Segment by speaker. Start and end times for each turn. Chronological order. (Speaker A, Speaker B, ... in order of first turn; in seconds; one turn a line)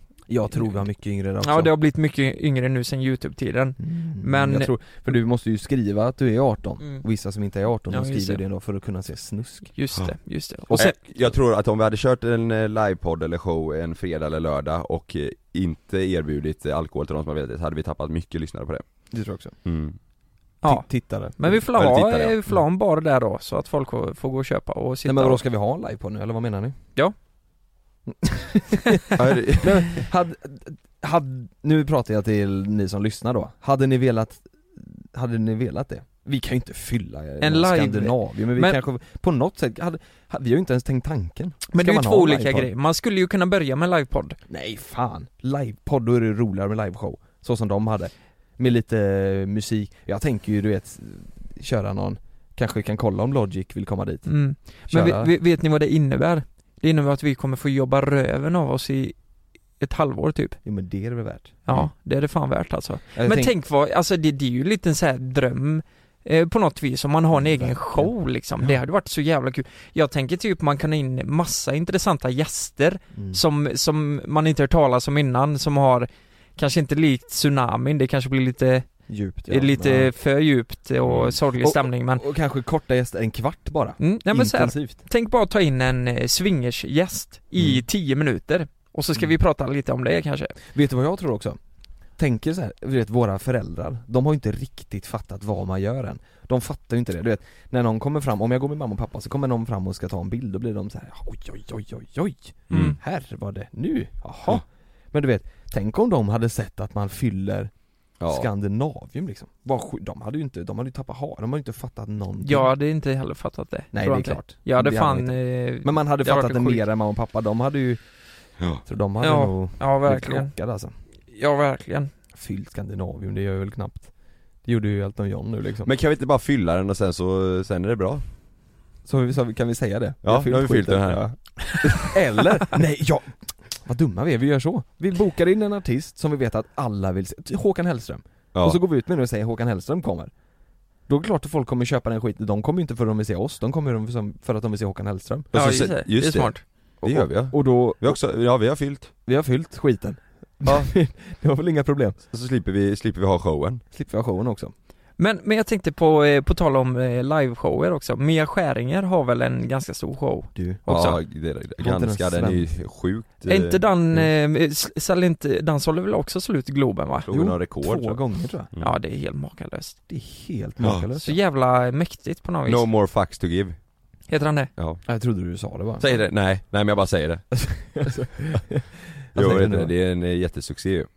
Speaker A: 0.3-1.7
Speaker B: 1.4-5.0
Speaker A: 3.8-9.7
Speaker B: 7.9-8.4
Speaker B: 9.7-10.9
Speaker C: 10.7-18.8
Speaker A: 19.1-19.5
Speaker C: 19.6-19.9
Speaker B: 20.6-25.4
Speaker A: 20.6-21.6
Speaker C: 21.7-22.4
Speaker A: 25.0-26.8
Speaker A: 28.1-29.0
Speaker C: 29.1-30.0
Speaker A: 29.6-42.7
Speaker B: 37.4-38.8
Speaker B: 41.7-44.4
Speaker A: 44.5-55.3
Speaker B: 54.2-59.2
Speaker B: 59.8-60.6
Speaker A: 60.6-61.6
Speaker B: 61.6-78.9
Speaker A: 63.1-63.5
Speaker A: 67.3-68.1
Speaker A: 73.1-73.4
Speaker A: 79.1-80.1
Speaker B: 79.5-82.2
Speaker C: 81.0-81.3
Speaker A: 81.6-85.0
Speaker B: 84.0-90.5
Speaker A: 90.7-91.6
Speaker A: 92.2-107.7
Speaker C: 102.7-103.0
Speaker C: 108.2-108.5
Speaker A: 108.3-112.7
Speaker B: 112.4-116.8
Speaker A: 113.9-118.0
Speaker A: 118.8-120.9
Speaker B: 119.2-120.5
Speaker B: 121.3-122.1
Speaker A: 122.3-124.1
Speaker A: 124.6-125.9
Speaker C: 125.8-128.2
Speaker A: 129.0-140.3
Speaker C: 130.2-131.2
Speaker C: 138.5-138.8
Speaker A: 141.1-145.8
Speaker C: 145.5-149.1
Speaker B: 145.5-146.6
Speaker A: 147.0-148.2
Speaker A: 149.2-152.2
Speaker C: 152.3-153.8
Speaker A: 153.9-154.7
Speaker B: 155.2-161.2
Speaker A: 160.5-160.8
Speaker C: 160.9-163.8
Speaker A: 161.8-162.7
Speaker B: 163.5-167.3
Speaker C: 167.2-168.9
Speaker A: 167.3-168.7
Speaker B: 168.8-170.0
Speaker A: 170.1-171.4
Speaker B: 171.2-172.8
Speaker C: 172.7-173.8
Speaker B: 174.3-174.7
Speaker C: 174.8-175.0
Speaker A: 175.1-176.1
Speaker C: 176.0-177.6
Speaker A: 177.6-179.9
Speaker C: 179.3-181.1